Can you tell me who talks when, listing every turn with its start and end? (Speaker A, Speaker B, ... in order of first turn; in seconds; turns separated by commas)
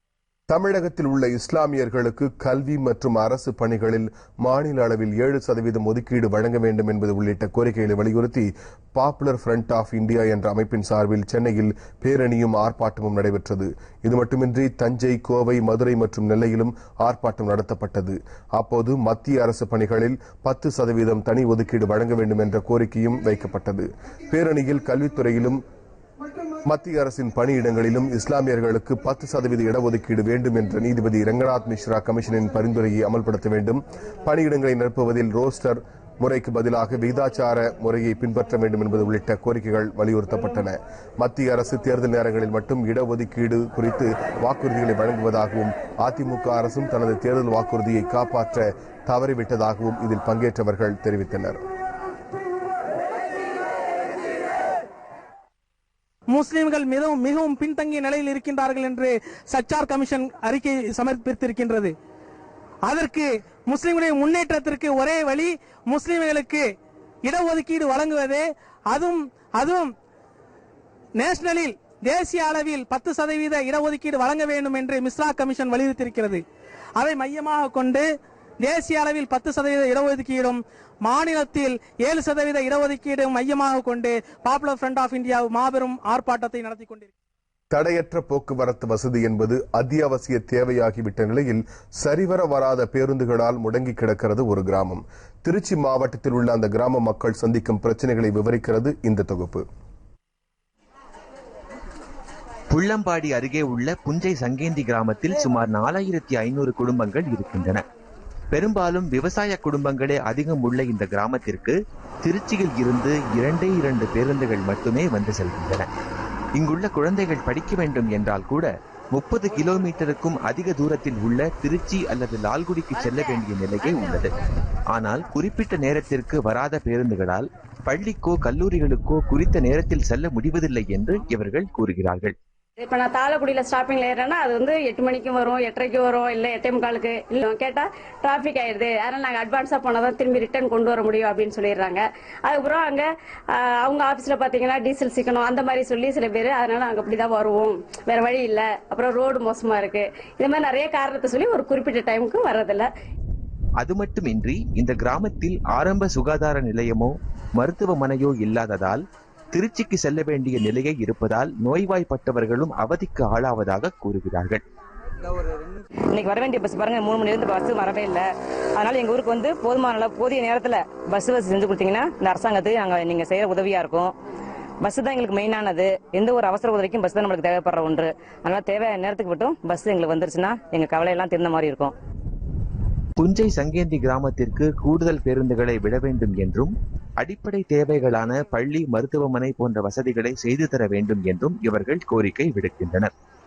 Speaker A: 0.5-25.6, Speaker A: 26.7-51.6, Speaker B: 56.3-61.9, Speaker B: 62.9-66.7, Speaker B: 67.2-69.9, Speaker B: 71.2-76.4, Speaker B: 77.0-78.1, Speaker B: 78.6-87.1, Speaker A: 87.7-99.7, Speaker C: 102.7-107.8, Speaker C: 108.5-115.9, Speaker C: 116.6-124.3, Speaker C: 124.9-132.3, Speaker D: 132.9-143.0, Speaker D: 143.8-152.9, Speaker C: 153.8-159.0, Speaker C: 159.5-164.6, Speaker E: 166.1-174.2, Speaker E: 174.8-181.9, Speaker C: 183.2-193.1